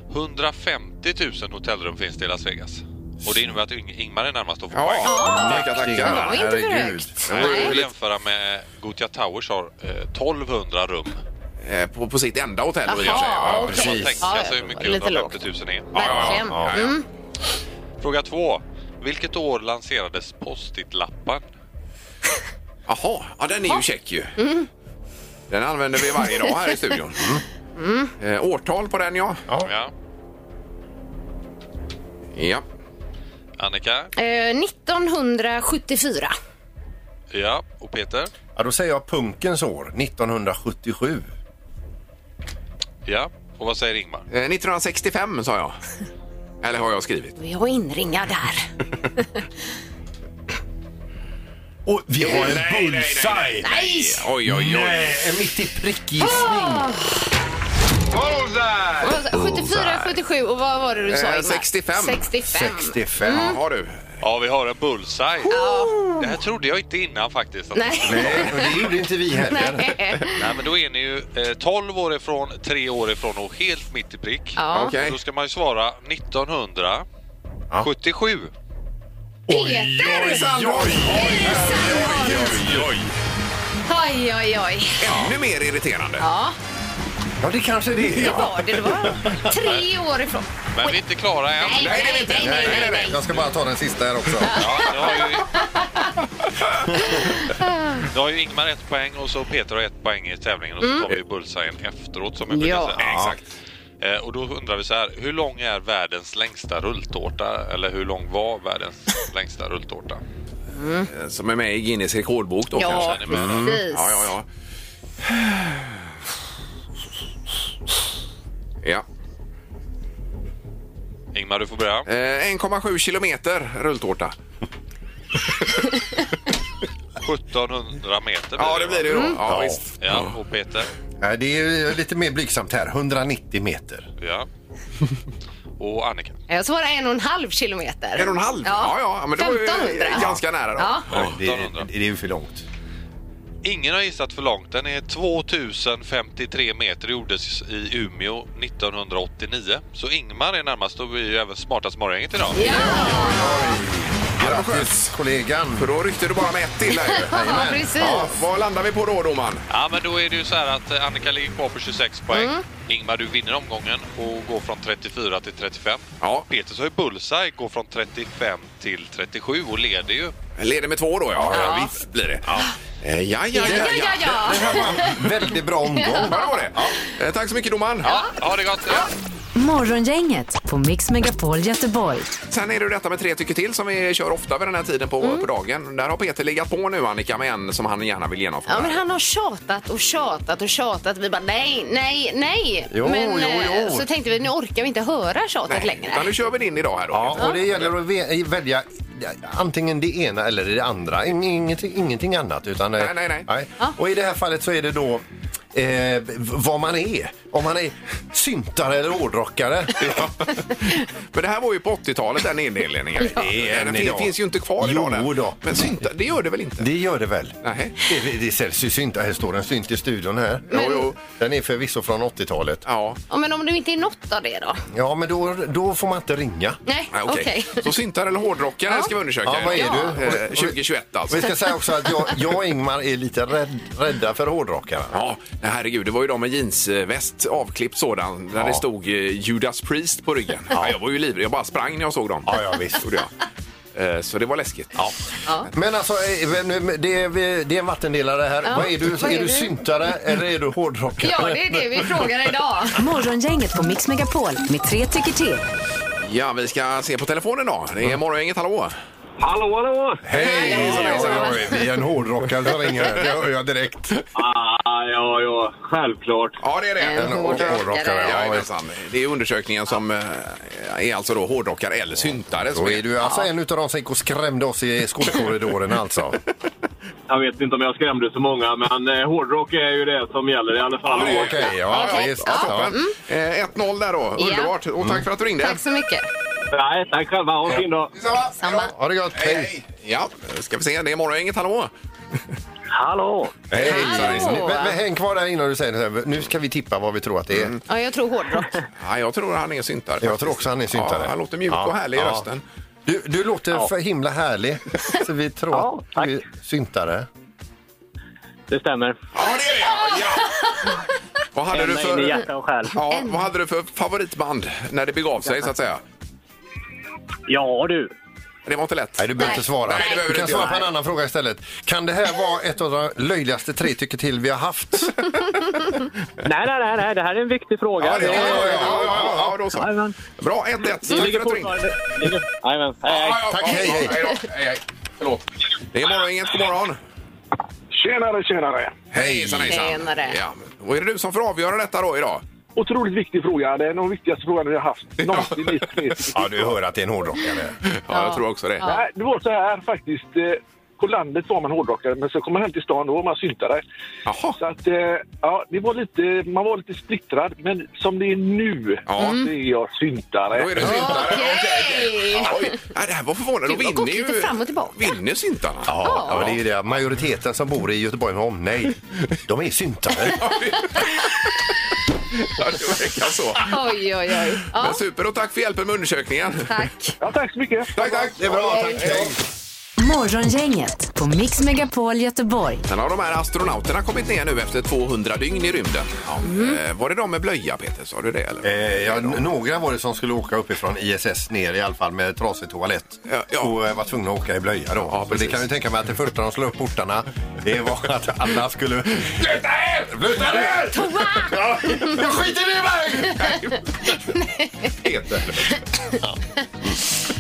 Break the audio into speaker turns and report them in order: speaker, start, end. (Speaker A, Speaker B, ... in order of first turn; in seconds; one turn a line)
Speaker A: 0.1-5.3
Speaker B: 4.7-6.4
Speaker C: 5.0-7.7
Speaker D: 5.3-7.2
Speaker B: 7.3-7.9
Speaker A: 7.3-11.2
Speaker B: 11.6-14.0
Speaker C: 12.9-15.4
Speaker A: 13.1-16.4
Speaker D: 13.5-14.2
Speaker C: 15.9-17.1
Speaker B: 15.9-17.0
Speaker D: 16.5-16.8
Speaker A: 18.0-21.4
Speaker B: 22.9-24.4
Speaker C: 24.4-24.7
Speaker B: 25.5-27.3
Speaker D: 27.2-27.4
Speaker C: 27.8-28.1
Speaker B: 28.2-29.4
Speaker A: 29.6-29.9
Speaker B: 32.3-32.6
Speaker A: 33.6-34.1
Speaker C: 34.2-36.4
Speaker A: 37.3-38.3
Speaker D: 38.5-41.3
Speaker A: 43.1-44.3
Speaker B: 44.3-45.8
Speaker B: 46.6-47.4
Speaker C: 47.4-49.4
Speaker D: 51.9-53.6
Speaker B: 52.2-55.1
Speaker C: 53.6-54.3
Speaker D: 54.5-56.9
Speaker C: 56.2-57.2
Speaker C: 59.0-63.6
Speaker D: 59.3-60.1
Speaker B: 61.1-62.2
Speaker D: 62.5-63.6
Speaker B: 63.3-64.1
Speaker A: 64.2-68.5
Speaker C: 65.5-66.1
Speaker C: 67.7-68.7
Speaker D: 68.1-70.0
Speaker C: 69.4-70.4
Speaker A: 70.4-77.0
Speaker C: 74.6-74.9
Speaker B: 74.7-75.2
Speaker A: 77.8-78.5
Speaker D: 79.5-82.8
Speaker C: 79.5-82.6
Speaker B: 80.0-83.1
Speaker C: 83.9-85.2
Speaker B: 85.0-86.2
Speaker C: 86.2-86.6
Speaker D: 87.4-89.5
Speaker C: 88.1-91.0
Speaker A: 90.8-92.2
Speaker C: 91.6-93.2
Speaker B: 91.7-93.3
Speaker D: 92.4-94.6
Speaker C: 94.4-96.1
Speaker A: 94.5-95.5
Speaker C: 97.2-98.0
Speaker A: 98.1-103.0
Speaker C: 100.8-101.1
Speaker C: 102.5-103.0
Speaker B: 103.0-103.4
Speaker D: 103.0-103.3
Speaker A: 104.0-110.2
Speaker C: 110.8-111.1
Speaker B: 111.1-114.5
Speaker C: 112.8-114.3
Speaker A: 112.8-113.7
Speaker D: 113.3-113.8
Speaker B: 115.2-115.9
Speaker A: 121.3-122.1
Speaker B: 122.1-124.3
Speaker A: 127.2-129.3
Speaker B: 128.6-130.3
Speaker C: 129.1-129.4
Speaker D: 129.5-129.8
Speaker A: 130.0-130.9
Speaker D: 131.2-134.1
Speaker A: 134.2-134.5
Speaker A: 135.8-136.4
Speaker C: 136.5-141.1
Speaker B: 138.2-141.3
Speaker D: 141.1-142.7
Speaker A: 141.3-141.9
Speaker A: 143.6-152.7
Speaker C: 152.5-153.8
Speaker B: 152.7-153.3
Speaker D: 152.7-155.9
Speaker B: 154.4-155.1
Speaker B: 155.8-157.3
Speaker C: 156.9-158.3
Speaker D: 157.2-158.4
Speaker B: 158.1-159.7
Speaker A: 159.7-170.3
Speaker C: 162.3-162.6
Speaker B: 170.6-172.5
Speaker C: 171.5-171.9
Speaker B: 173.0-174.9
Speaker C: 173.5-176.6
Speaker D: 173.6-176.9
Speaker B: 176.3-178.1
Speaker C: 178.0-178.3
Speaker A: 178.1-179.1
Speaker E: 179.6-182.4
Speaker B: 182.5-189.0
Speaker C: 185.2-185.5
Speaker C: 188.7-196.3
Speaker D: 192.9-194.1
Speaker B: 195.7-197.9
Speaker D: 197.1-210.3
Speaker B: 203.0-203.5
Speaker B: 210.0-216.9
Speaker D: 213.2-216.0
Speaker D: 216.8-222.8
Speaker B: 217.6-217.9
Speaker C: 220.7-221.1
Speaker B: 220.7-221.2
Speaker B: 222.9-223.2
Speaker C: 223.3-224.8
Speaker D: 224.9-226.8
Speaker C: 226.9-227.9
Speaker B: 227.1-231.5
Speaker D: 229.4-230.8
Speaker C: 229.7-230.2
Speaker D: 231.3-235.2
Speaker B: 235.1-243.3
Speaker D: 238.6-238.8
Speaker D: 242.4-243.1
Speaker B: 243.9-245.1
Speaker D: 245.7-252.3
Speaker C: 248.6-249.7
Speaker C: 251.2-253.0
Speaker E: 253.0-255.7
Speaker B: 256.2-258.9
Speaker F: 259.4-260.2
Speaker D: 260.2-264.1
Speaker B: 260.4-261.7
Speaker C: 260.4-261.8
Speaker F: 264.4-266.6
Speaker B: 266.6-273.1
Speaker C: 267.0-268.4
Speaker D: 267.1-268.7
Speaker D: 272.7-276.4
Speaker F: 277.3-281.6
Speaker B: 281.1-285.8
Speaker D: 281.1-282.9
Speaker C: 281.8-283.2
Speaker C: 284.4-284.7
Speaker C: 285.6-286.3
Speaker F: 286.7-288.1
Speaker B: 288.2-288.6
Speaker C: 288.6-288.9
Speaker D: 288.6-289.7
Speaker B: 289.4-292.4
Speaker F: 292.9-293.6
Speaker D: 293.7-297.7
Speaker B: 293.8-294.8
Speaker C: 293.8-295.0
Speaker B: 297.5-297.8
Speaker C: 297.9-298.8
Speaker B: 299.0-302.6
Speaker D: 300.2-302.4
Speaker D: 303.1-307.3
Speaker F: 305.7-306.4
Speaker F: 308.7-309.2
Speaker B: 309.4-310.5
Speaker C: 309.9-310.7
Speaker B: 311.5-312.4
Speaker F: 311.7-312.9
Speaker B: 312.9-316.0
Speaker C: 313.1-313.4
Speaker F: 317.5-318.1
Speaker B: 318.7-320.8
Speaker D: 319.2-325.2
Speaker C: 319.4-320.7
Speaker F: 326.4-330.1
Speaker B: 328.0-331.8
Speaker D: 328.1-329.5
Speaker F: 331.0-333.5
Speaker B: 333.0-337.0
Speaker D: 333.5-334.3
Speaker G: 337.9-339.1
Speaker B: 339.1-342.4
Speaker D: 339.1-339.8
Speaker C: 339.7-340.4
Speaker G: 342.8-346.7
Speaker D: 346.3-347.8
Speaker B: 347.8-348.9
Speaker C: 348.1-349.0
Speaker G: 348.8-353.8
Speaker B: 354.3-354.6
Speaker G: 354.6-361.1
Speaker B: 359.1-359.4
Speaker C: 359.2-359.5
Speaker B: 360.6-366.6
Speaker C: 360.8-362.8
Speaker C: 363.7-365.1
Speaker D: 365.9-370.4
Speaker C: 366.0-366.5
Speaker B: 370.3-371.7
Speaker B: 372.4-373.7
Speaker C: 373.6-375.0
Speaker B: 374.7-376.7
Speaker C: 376.7-377.1
Speaker G: 377.2-378.4
Speaker B: 377.9-379.3
Speaker D: 378.4-379.4
Speaker C: 378.7-379.1
Speaker E: 380.0-382.8
Speaker B: 382.9-389.4
Speaker C: 386.4-386.8
Speaker D: 388.6-403.4
Speaker B: 393.3-393.7
Speaker B: 395.1-395.7
Speaker B: 399.3-400.8
Speaker C: 400.8-402.3
Speaker C: 403.3-404.9
Speaker B: 403.3-403.9
Speaker B: 405.0-405.8